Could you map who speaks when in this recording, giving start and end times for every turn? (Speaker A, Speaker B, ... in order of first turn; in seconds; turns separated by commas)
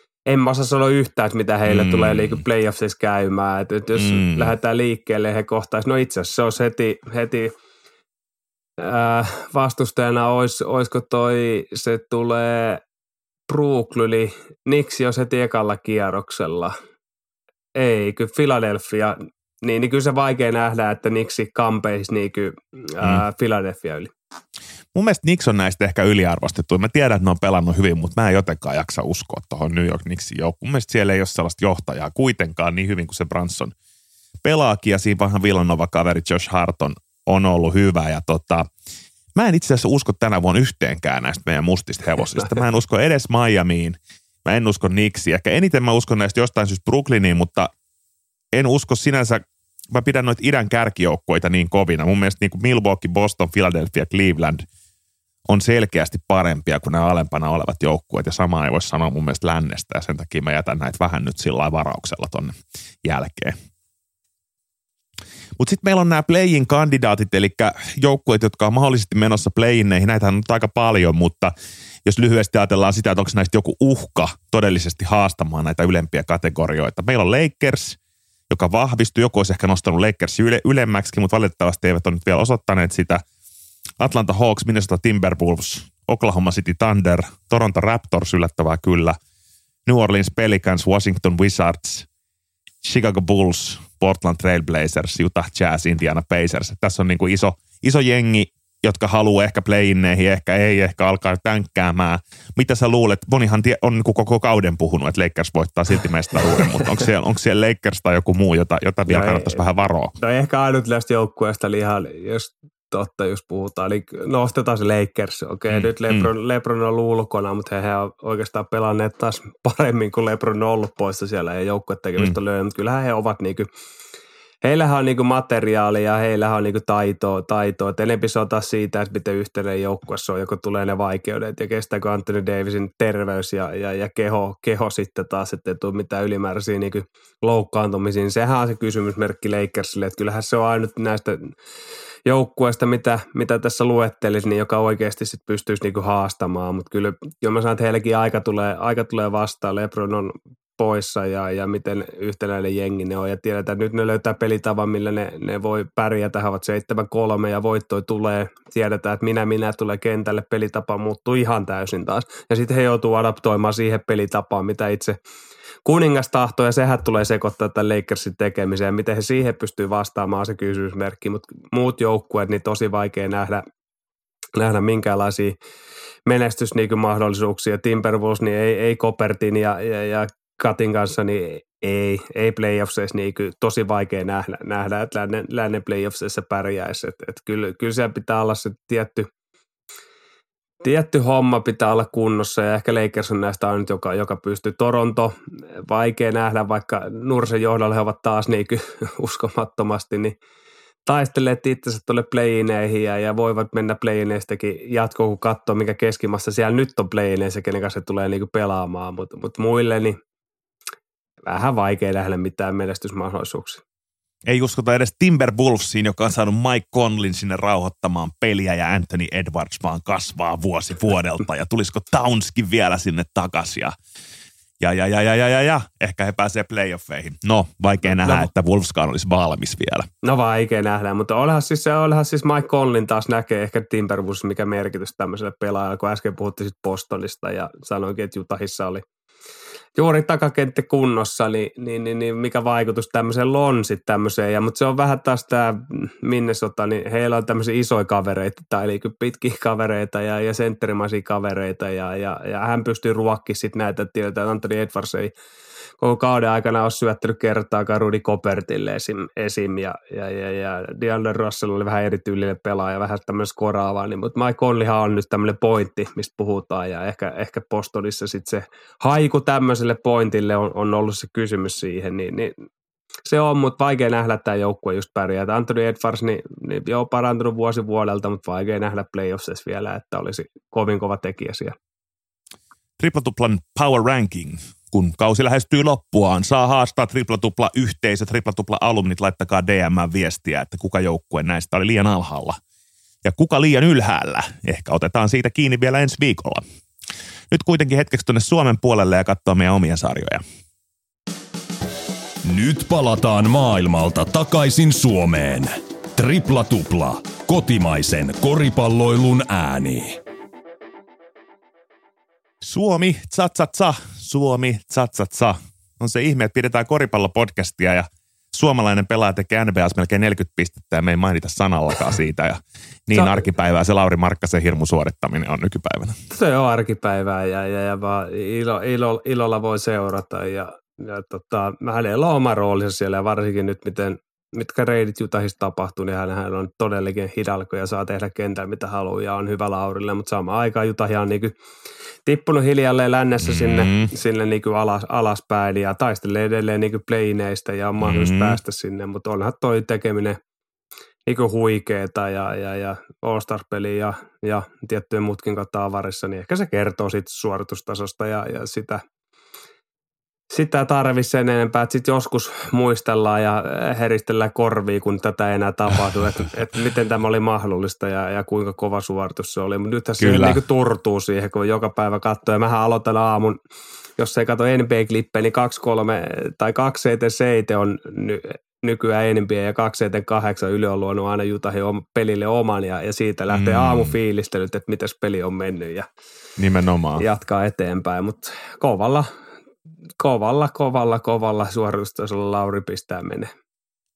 Speaker A: 0.3-7.5, Speaker B: 1.7-2.4, Speaker B: 4.0-4.5, Speaker A: 8.8-12.8, Speaker A: 13.5-16.7, Speaker A: 17.8-24.1, Speaker B: 24.9-33.7, Speaker B: 34.4-38.7, Speaker B: 39.4-47.7, Speaker B: 48.5-54.6, Speaker B: 55.5-63.5, Speaker B: 65.6-71.5, Speaker B: 72.0-78.0, Speaker B: 78.5-83.2, Speaker B: 84.0-89.2, Speaker B: 89.8-92.1, Speaker B: 92.8-110.1, Speaker A: 109.1-109.6, Speaker A: 110.2-123.7, Speaker B: 115.7-116.3, Speaker A: 124.6-141.5, Speaker A: 142.2-165.2, Speaker A: 165.8-173.7, Speaker A: 174.6-175.5, Speaker A: 176.3-189.3, Speaker A: 190.8-195.3, Speaker A: 195.8-200.3, Speaker A: 201.1-210.2, Speaker A: 211.4-213.8, Speaker B: 214.5-223.9, Speaker B: 224.8-230.1, Speaker A: 228.2-228.5, Speaker A: 230.2-239.0, Speaker A: 240.0-255.3, Speaker A: 256.0-272.6, Speaker A: 273.3-281.8, Speaker B: 283.0-292.6, Speaker B: 293.2-296.6, Speaker B: 297.5-300.4, Speaker C: 302.4-310.2, Speaker B: 312.6-326.2, Speaker A: 323.1-323.4, Speaker A: 326.3-341.5, Speaker A: 342.2-350.4, Speaker B: 343.4-344.1, Speaker B: 348.0-348.6, Speaker A: 351.2-359.0, Speaker A: 360.5-373.6, Speaker B: 370.2-370.6, Speaker A: 374.2-386.1, Speaker B: 383.5-384.1, Speaker B: 386.6-387.2, Speaker A: 387.2-389.3, Speaker A: 390.2-393.5